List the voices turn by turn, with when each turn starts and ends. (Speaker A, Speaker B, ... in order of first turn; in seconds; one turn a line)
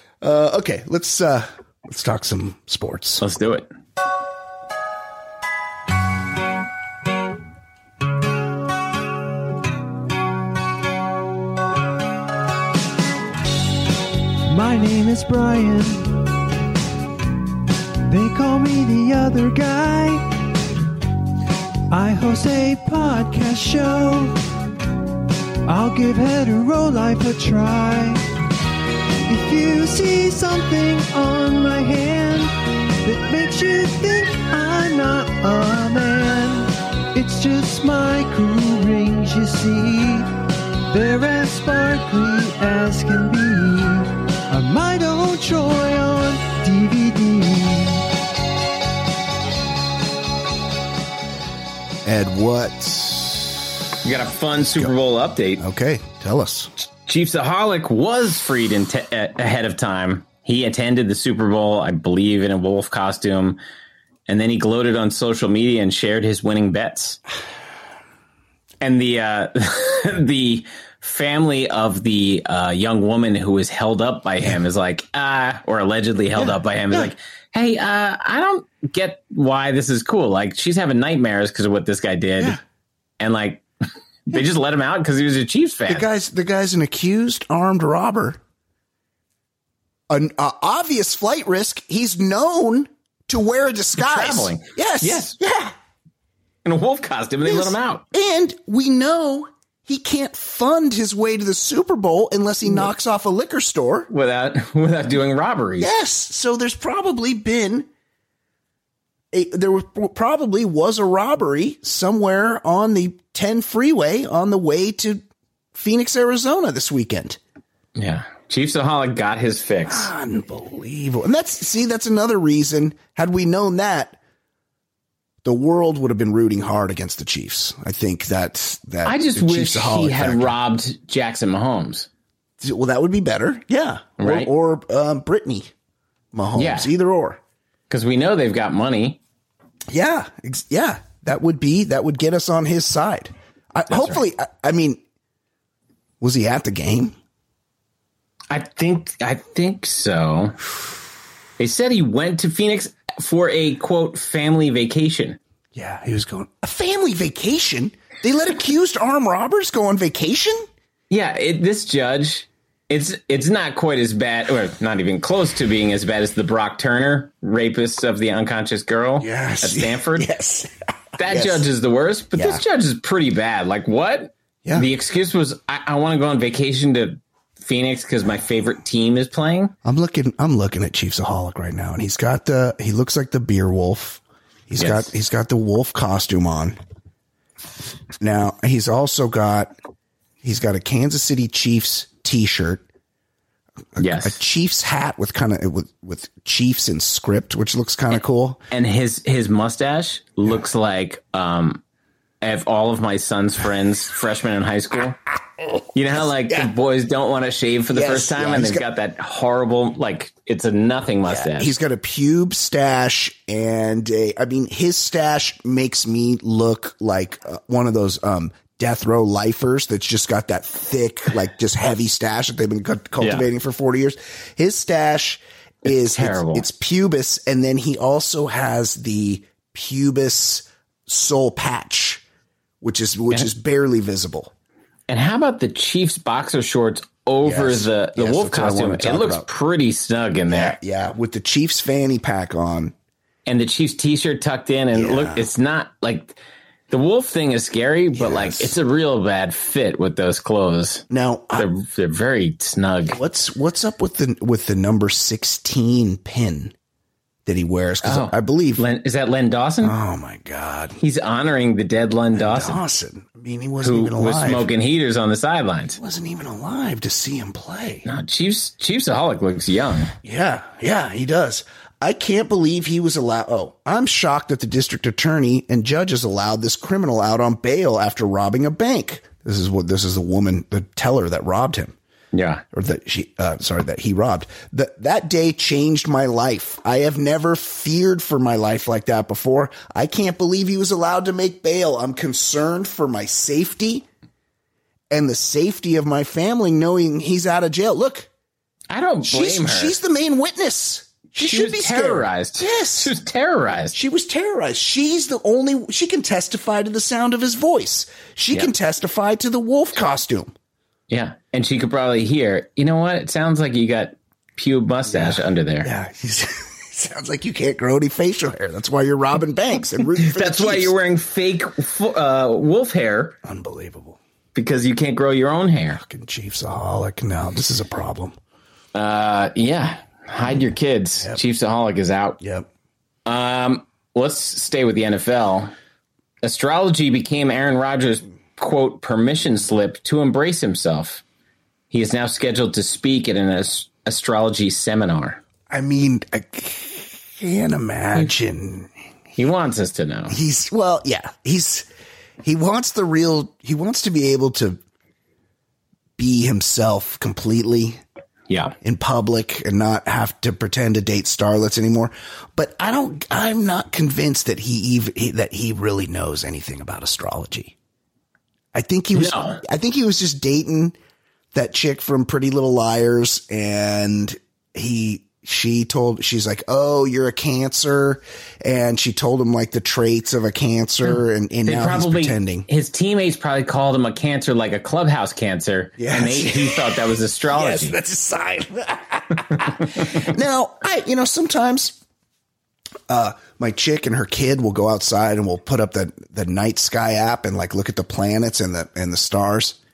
Speaker A: 0.2-3.2
Speaker B: 3.2-3.7
Speaker C: 14.5-16.3
Speaker C: 18.1-20.3
Speaker C: 21.9-24.4
Speaker C: 25.6-28.2
Speaker C: 29.3-40.3
Speaker C: 40.9-48.0
Speaker A: 52.0-53.7
Speaker B: 54.0-55.6
Speaker A: 54.6-54.9
Speaker A: 55.6-56.7
Speaker B: 57.1-63.6
Speaker B: 64.3-67.2
Speaker B: 68.8-82.6
Speaker A: 76.3-77.1
Speaker B: 83.2-83.6
Speaker B: 84.3-86.1
Speaker A: 85.9-88.4
Speaker A: 90.1-95.7
Speaker B: 94.0-95.4
Speaker B: 96.7-98.0
Speaker A: 97.4-104.1
Speaker B: 104.1-105.9
Speaker A: 105.8-107.9
Speaker A: 109.3-117.4
Speaker B: 118.0-120.1
Speaker A: 119.9-124.2
Speaker A: 125.4-130.6
Speaker B: 129.0-132.1
Speaker A: 132.6-135.7
Speaker B: 134.2-134.5
Speaker A: 136.3-137.4
Speaker B: 136.6-136.9
Speaker B: 137.9-139.2
Speaker A: 139.9-145.0
Speaker B: 143.9-144.2
Speaker A: 146.2-147.2
Speaker B: 148.5-150.6
Speaker B: 151.6-155.4
Speaker A: 155.7-160.7
Speaker B: 161.1-170.3
Speaker A: 169.2-171.7
Speaker B: 171.2-179.7
Speaker A: 172.3-172.6
Speaker A: 174.6-174.9
Speaker A: 179.8-186.8
Speaker B: 184.8-185.1
Speaker A: 188.2-189.7
Speaker A: 190.4-192.8
Speaker A: 193.9-198.6
Speaker B: 194.0-194.4
Speaker B: 198.7-201.8
Speaker B: 202.4-205.2
Speaker B: 205.9-211.7
Speaker A: 207.9-208.8
Speaker A: 211.3-232.2
Speaker B: 223.2-223.5
Speaker B: 225.8-226.7
Speaker A: 232.8-234.5
Speaker B: 235.1-240.8
Speaker A: 237.4-239.5
Speaker A: 240.5-242.9
Speaker B: 243.5-246.4
Speaker A: 244.9-245.5
Speaker B: 246.9-251.0
Speaker A: 248.2-248.8
Speaker A: 251.1-251.7
Speaker B: 251.6-253.2
Speaker A: 253.1-256.7
Speaker A: 257.5-258.8
Speaker B: 258.0-260.0
Speaker A: 259.8-261.0
Speaker B: 261.0-262.8
Speaker A: 262.3-264.7
Speaker B: 263.8-266.0
Speaker A: 266.0-268.1
Speaker B: 268.1-270.1
Speaker A: 270.2-282.0
Speaker B: 282.3-282.6
Speaker A: 282.7-294.1
Speaker A: 295.1-298.3
Speaker B: 298.9-300.0
Speaker A: 299.2-303.1
Speaker B: 301.4-304.0
Speaker A: 303.9-310.5
Speaker B: 311.1-315.9
Speaker A: 315.1-320.9
Speaker B: 320.1-323.4
Speaker A: 323.4-324.2
Speaker B: 324.5-326.0
Speaker A: 325.9-328.4
Speaker B: 328.9-332.4
Speaker A: 332.4-332.7
Speaker B: 333.3-335.7
Speaker B: 336.4-341.2
Speaker B: 341.9-345.4
Speaker A: 345.7-348.9
Speaker B: 349.4-350.4
Speaker A: 350.3-351.9
Speaker A: 352.4-354.8
Speaker A: 356.2-358.0
Speaker B: 358.5-358.8
Speaker A: 358.8-367.8
Speaker A: 368.7-371.0
Speaker B: 369.1-369.6
Speaker A: 371.5-382.7
Speaker B: 381.1-388.0
Speaker A: 386.0-392.0
Speaker B: 389.5-390.2
Speaker A: 393.1-399.8